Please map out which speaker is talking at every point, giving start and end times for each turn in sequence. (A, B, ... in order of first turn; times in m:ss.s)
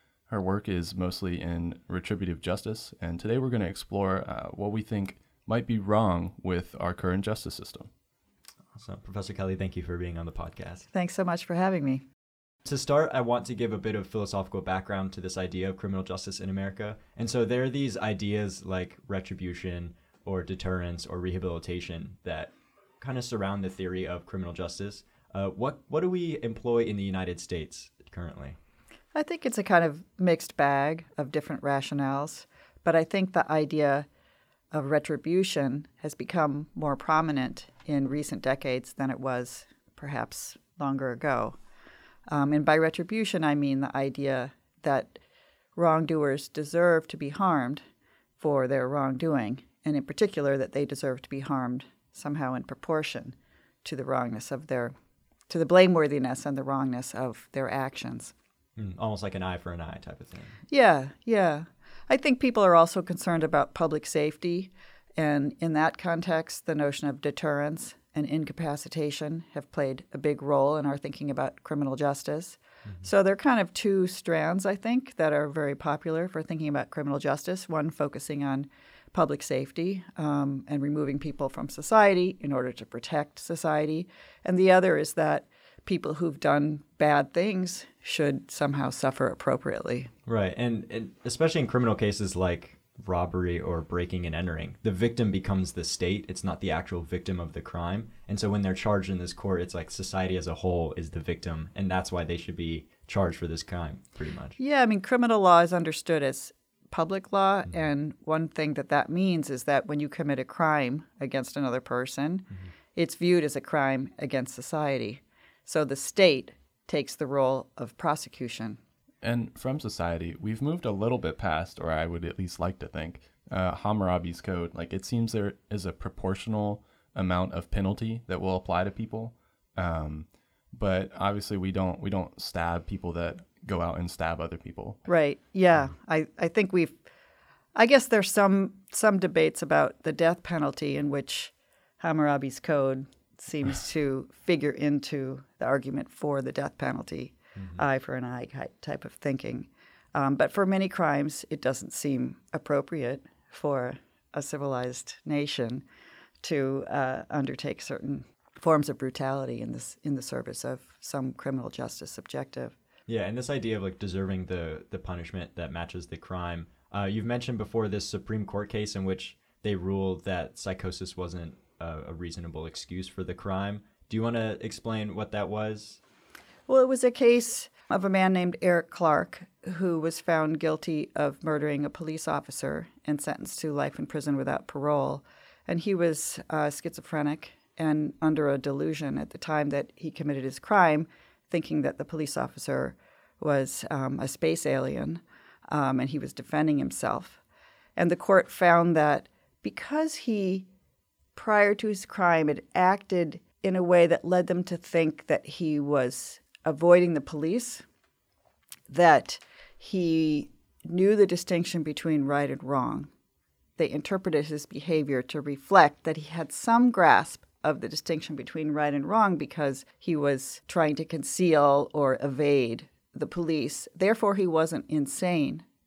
0:00.3-0:07.9 A
0:08.7-0:10.9 B
0:10.9-0:12.0 C
0:12.6-0:28.6 B
0:29.1-0:34.1 C
0:34.7-0:41.6 C
0:42.3-0:45.2 C
0:45.8-0:47.8 C
0:48.4-0:54.9 C
0:55.5-0:58.3 C
0:58.8-1:00.6 B
1:00.7-1:30.1 C
1:30.2-1:44.6 B
1:44.6-1:58.8 C
1:59.2-2:15.0 A
2:15.1-2:17.0 C
2:17.7-2:35.8 C
2:27.6-2:27.8 B
2:36.4-2:42.7 C
2:43.1-2:56.0 B
2:56.7-3:17.4 C
3:18.0-3:20.7 C
3:21.3-3:27.8 C
3:28.9-3:33.1 C
3:33.8-3:45.6 C